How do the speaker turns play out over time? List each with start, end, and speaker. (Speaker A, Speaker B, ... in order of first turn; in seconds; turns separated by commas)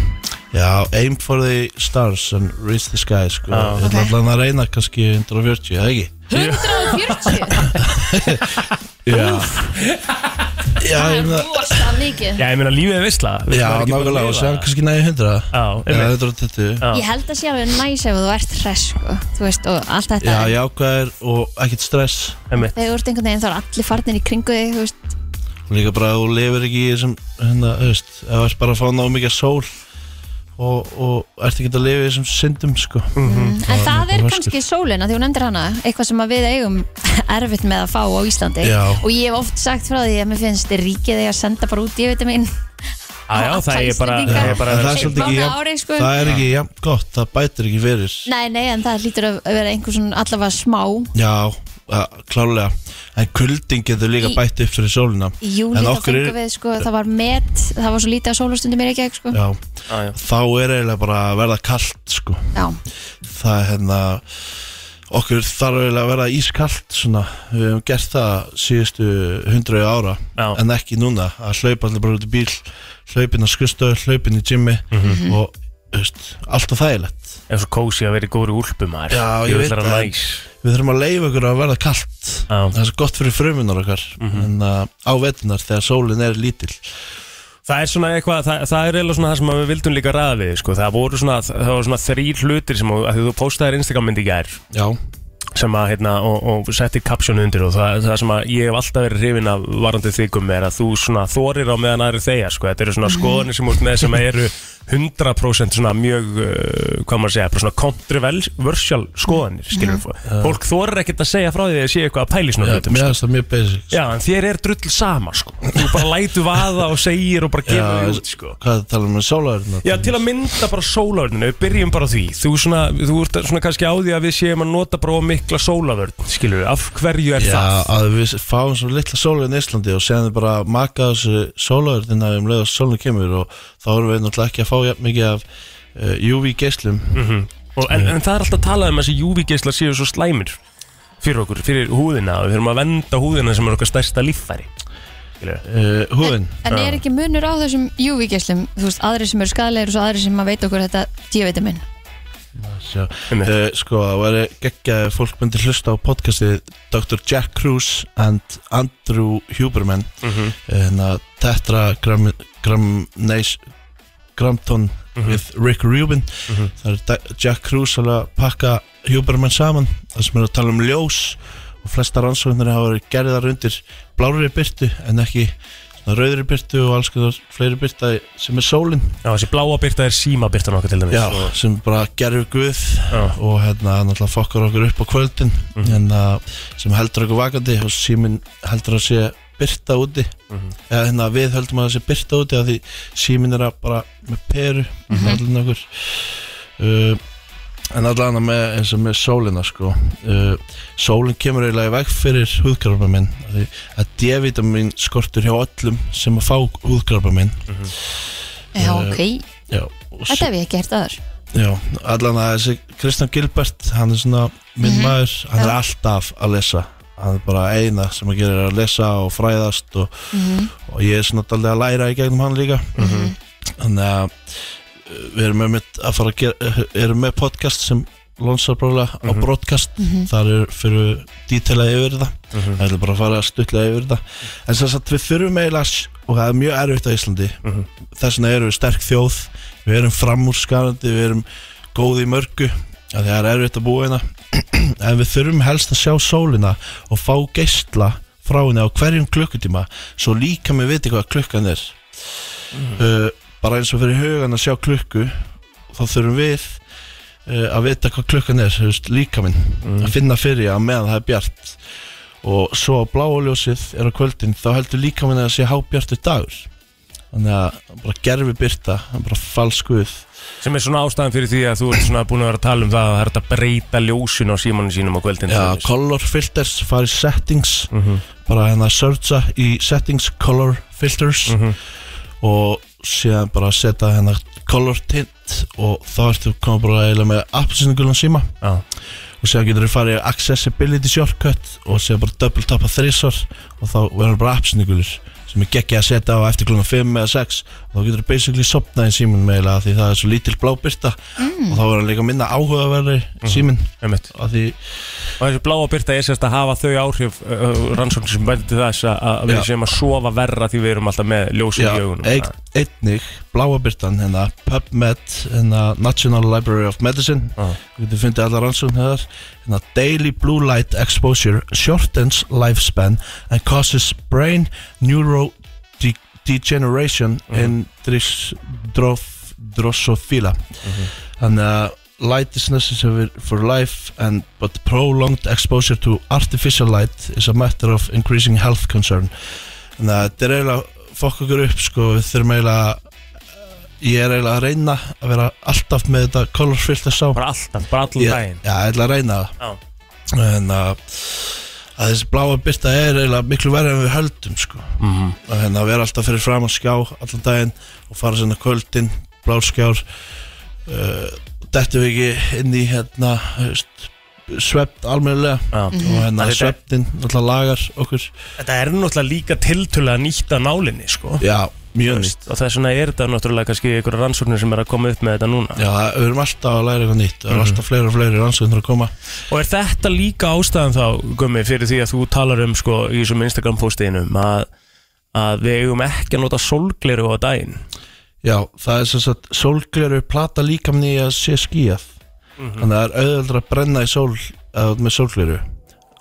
Speaker A: 0.5-6.3, Speaker B: 3.5-3.9, Speaker C: 3.8-4.1, Speaker C: 6.3-7.7, Speaker B: 6.3-7.8, Speaker A: 7.6-9.7, Speaker B: 8.3-8.7, Speaker C: 9.1-9.4, Speaker B: 9.7-10.5, Speaker A: 10.8-12.0, Speaker C: 10.9-12.4, Speaker B: 12.4-14.7, Speaker A: 13.5-16.9, Speaker B: 15.5-16.1, Speaker B: 16.8-17.0, Speaker C: 16.9-20.5, Speaker A: 20.2-22.4, Speaker C: 22.6-25.1, Speaker A: 25.7-29.7, Speaker A: 30.6-34.5, Speaker B: 33.1-33.6, Speaker C: 33.2-42.5, Speaker A: 38.6-39.0, Speaker B: 43.3-45.5, Speaker C: 43.3-46.2, Speaker A: 44.3-48.3, Speaker C: 48.2-51.1, Speaker A: 51.1-56.4, Speaker C: 55.4-59.4, Speaker A: 59.3-62.5, Speaker B: 59.9-60.1, Speaker A: 63.2-64.2, Speaker A: 65.1-77.4, Speaker B: 74.9-75.2, Speaker C: 75.0-75.3, Speaker B: 77.5-80.4, Speaker A: 79.1-86.8, Speaker B: 82.5-82.7, Speaker B: 84.2-84.5, Speaker B: 87.7-94.6, Speaker A: 94.7-95.0, Speaker B: 95.5-113.2, Speaker C: 103.0-103.5, Speaker C: 109.7-110.0, Speaker A: 110.2-110.6, Speaker A: 112.6-114.0, Speaker B: 113.9-118.6, Speaker A: 117.7-120.2, Speaker B: 119.8-127.9, Speaker A: 127.4-137.2, Speaker B: 137.1-140.6, Speaker B: 141.2-144.7, Speaker A: 145.6-146.6, Speaker C: 146.2-151.8, Speaker B: 146.7-147.0, Speaker A: 152.6-160.1, Speaker B: 160.2-160.5, Speaker A: 160.7-163.6, Speaker A: 164.3-179.2, Speaker B: 179.2-181.5, Speaker A: 181.1-190.3, Speaker B: 183.1-183.3, Speaker A: 190.9-197.2, Speaker C: 195.1-195.4, Speaker A: 197.9-207.7, Speaker C: 208.8-209.4, Speaker A: 208.8-210.5, Speaker C: 210.3-211.2, Speaker A: 211.5-223.2, Speaker C: 214.8-215.8, Speaker C: 220.3-220.7, Speaker B: 223.0-223.3, Speaker C: 223.0-223.3, Speaker A: 223.8-237.6, Speaker B: 229.2-229.5, Speaker C: 230.0-230.3, Speaker B: 232.5-232.8, Speaker A: 238.1-252.1, Speaker B: 252.7-253.0, Speaker A: 252.9-256.8, Speaker A: 257.4-261.8, Speaker B: 259.8-260.1, Speaker A: 262.4-266.7, Speaker A: 267.3-270.3, Speaker B: 270.6-275.9, Speaker A: 275.5-277.9, Speaker B: 277.9-278.2, Speaker A: 278.4-281.6, Speaker B: 281.5-281.8, Speaker A: 282.4-288.5, Speaker A: 289.4-304.8, Speaker C: 301.4-301.8, Speaker B: 303.4-304.3, Speaker B: 305.4-312.5, Speaker A: 311.8-339.3, Speaker B: 330.8-331.1, Speaker A: 340.0-343.0, Speaker A: 344.0-347.4, Speaker B: 347.3-348.6, Speaker A: 348.1-349.5, Speaker A: 350.3-360.0, Speaker B: 355.0-355.4, Speaker A: 360.9-368.3, Speaker B: 365.7-366.8, Speaker C: 365.9-366.3, Speaker B: 368.6-371.4, Speaker A: 371.4-372.3, Speaker B: 372.1-375.8, Speaker A: 375.8-379.1, Speaker B: 377.5-377.8, Speaker B: 379.5-384.7, Speaker B: 385.3-387.8, Speaker A: 388.4-392.1, Speaker B: 392.6-392.9, Speaker A: 392.8-395.6